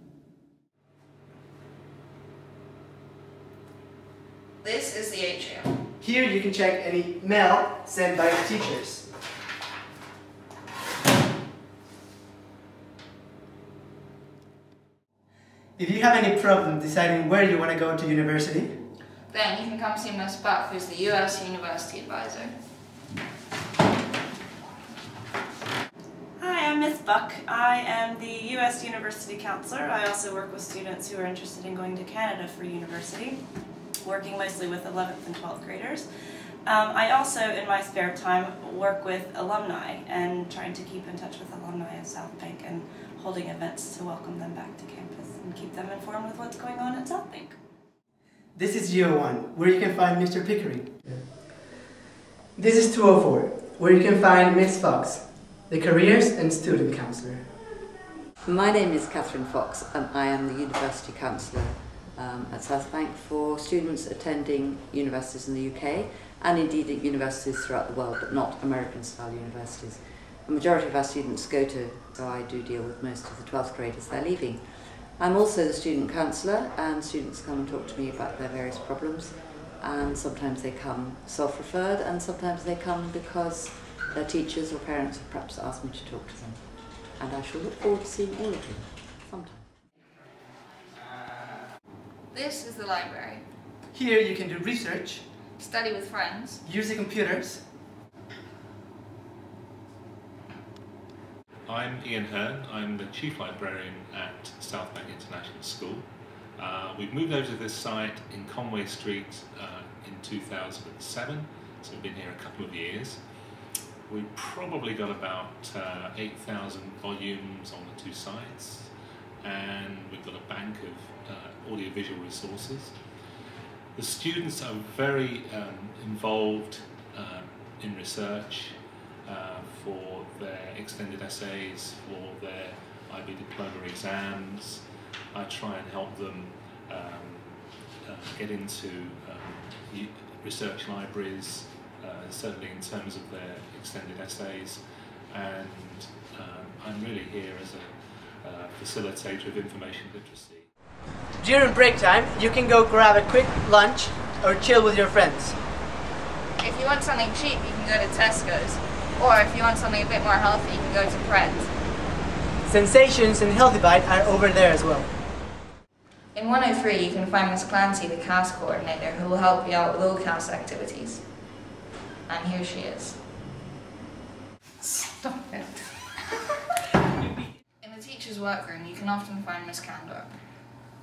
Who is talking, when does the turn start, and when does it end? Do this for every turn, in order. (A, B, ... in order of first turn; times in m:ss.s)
0:04.6-0:05.8 A
0:06.0-0:09.1 B
0:15.8-0:18.9 B
0:19.3-0:22.5 A
0:26.4-0:33.4 C
0:34.0-0:47.6 C
0:48.5-0:51.2 B
0:52.6-0:57.5 B
0:58.4-1:29.7 D
1:32.3-1:33.4 A
1:33.9-1:35.3 B
1:35.6-1:36.6 A
1:36.6-1:37.7 B
1:41.7-2:03.3 E
2:03.9-2:30.7 E
2:31.4-2:35.6 B
2:36.6-2:41.7 A
2:42.6-2:45.1 B
2:46.3-2:51.2 A
2:52.3-2:53.2 A
2:54.8-2:55.6 A
2:57.8-3:00.3 A